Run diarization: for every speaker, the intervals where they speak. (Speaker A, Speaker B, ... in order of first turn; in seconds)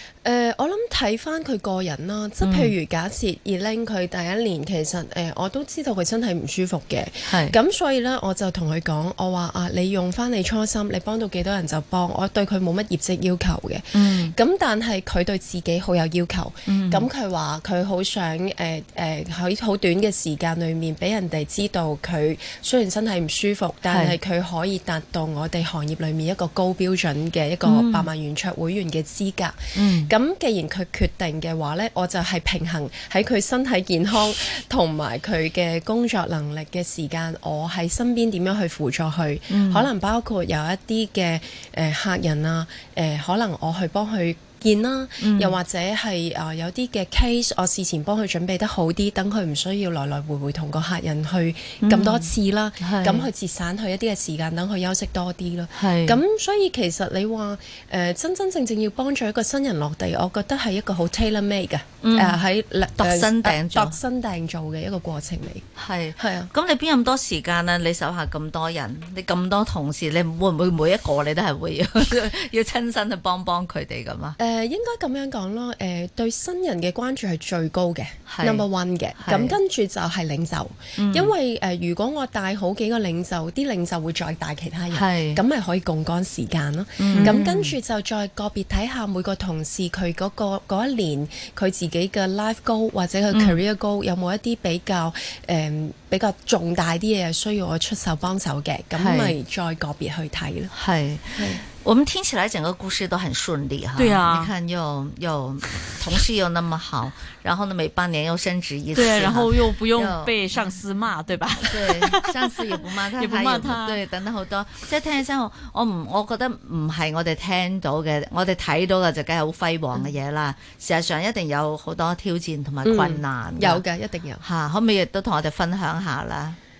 Speaker A: 0.2-66.5, 74.4-100.7, 101.3-101.6, 122.8-124.4
Speaker B: 2.4-2.7, 7.2-7.5, 13.9-14.3, 16.7-17.1, 23.9-24.1, 27.6-28.1, 29.7-30.1, 39.5-39.9, 45.2-45.6, 51.8-53.3, 55.7-56.2, 62.0-62.4, 63.0-64.0, 65.8-74.4, 78.3-78.7, 79.2-79.6, 81.0-81.3, 84.9-85.4, 87.0-87.7, 93.3-93.6, 99.0-99.3, 100.7-110.4, 111.6-123.8, 124.4-126.6
Speaker C: 87.1-87.4, 104.0-104.5, 108.9-114.0